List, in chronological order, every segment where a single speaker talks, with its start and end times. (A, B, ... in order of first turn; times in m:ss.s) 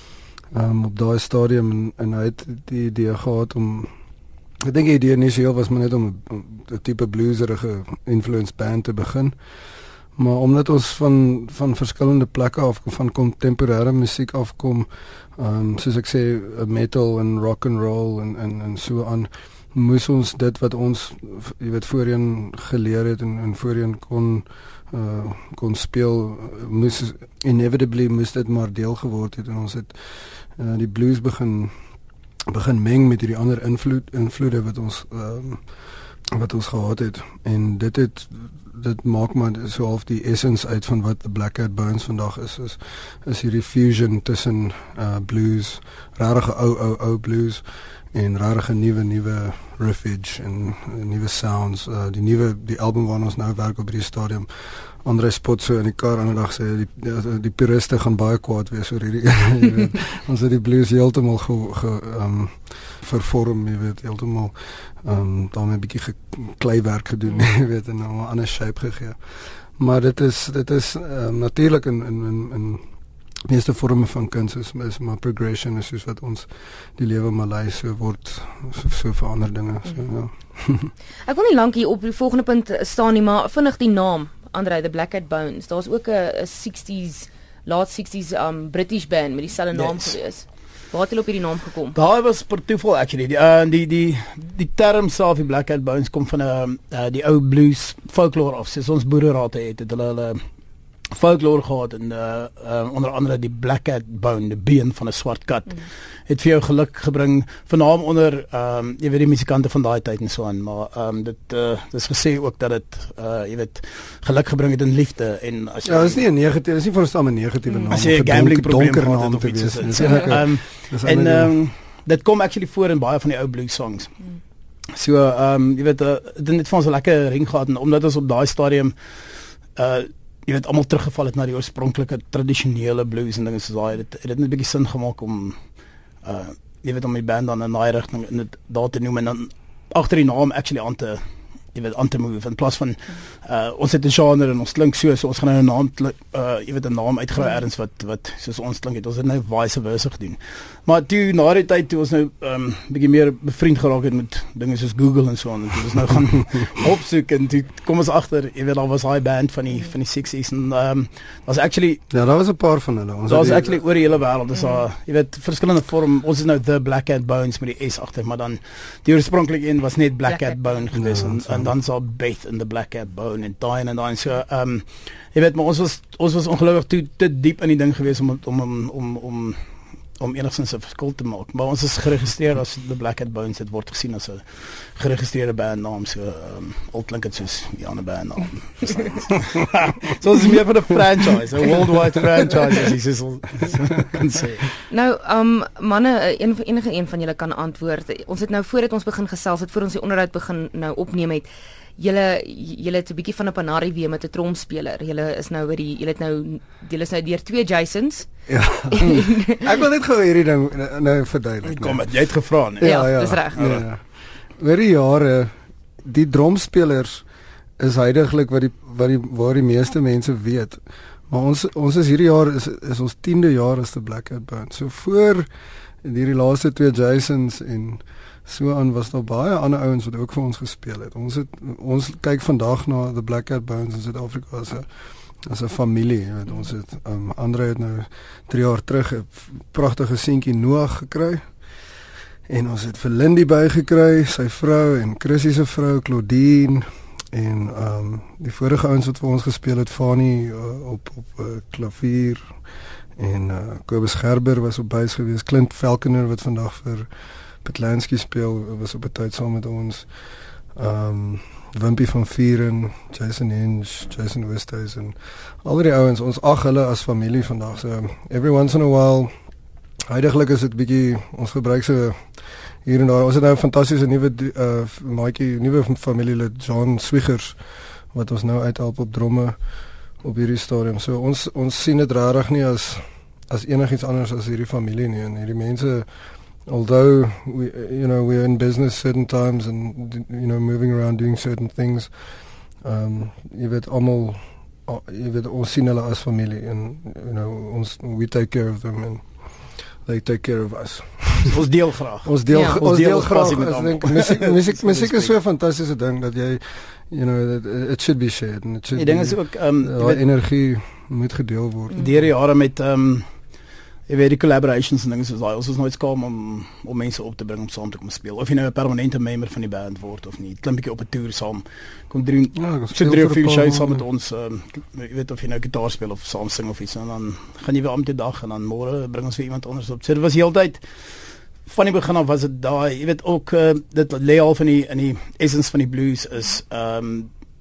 0:00.5-0:03.9 A
0:04.6-0:09.3 A
0:10.2-0:31.7 A
0:32.5-0:54.5 A
0:55.0-1:12.8 A
1:13.5-1:20.9 A
1:21.2-1:32.0 B
1:29.7-1:30.2 C
1:31.9-1:40.4 C
1:41.1-1:56.2 C
1:55.8-2:01.6 A
1:57.7-1:57.9 B
1:57.9-2:04.2 C
2:00.0-2:00.2 B
2:04.9-2:09.0 C
2:09.7-2:15.6 C
2:16.2-2:21.2 C
2:21.7-2:42.0 C
2:42.1-2:43.8 A
2:43.3-2:59.6 C
2:44.5-2:44.8 B
2:50.3-2:50.7 B
2:50.9-2:51.7 A
3:00.2-3:14.7 C
3:14.9-3:28.3 B
3:28.5-3:37.2 A
3:28.9-3:29.6 B
3:31.6-3:33.8 C
3:32.8-3:33.6 B
3:37.8-3:45.5 A
3:46.0-4:01.5 A
4:02.5-4:12.6 A
4:13.2-4:17.1 A
4:17.6-4:20.1 A
4:20.7-4:29.3 A
4:30.1-4:37.6 A
4:38.1-4:39.6 A
4:40.2-5:12.3 A
5:01.4-5:05.4 C
5:02.5-5:02.8 B
5:08.9-5:10.2 C
5:11.9-5:13.3 C
5:14.1-5:30.8 C
5:22.5-5:24.0 A
5:31.6-5:37.3 C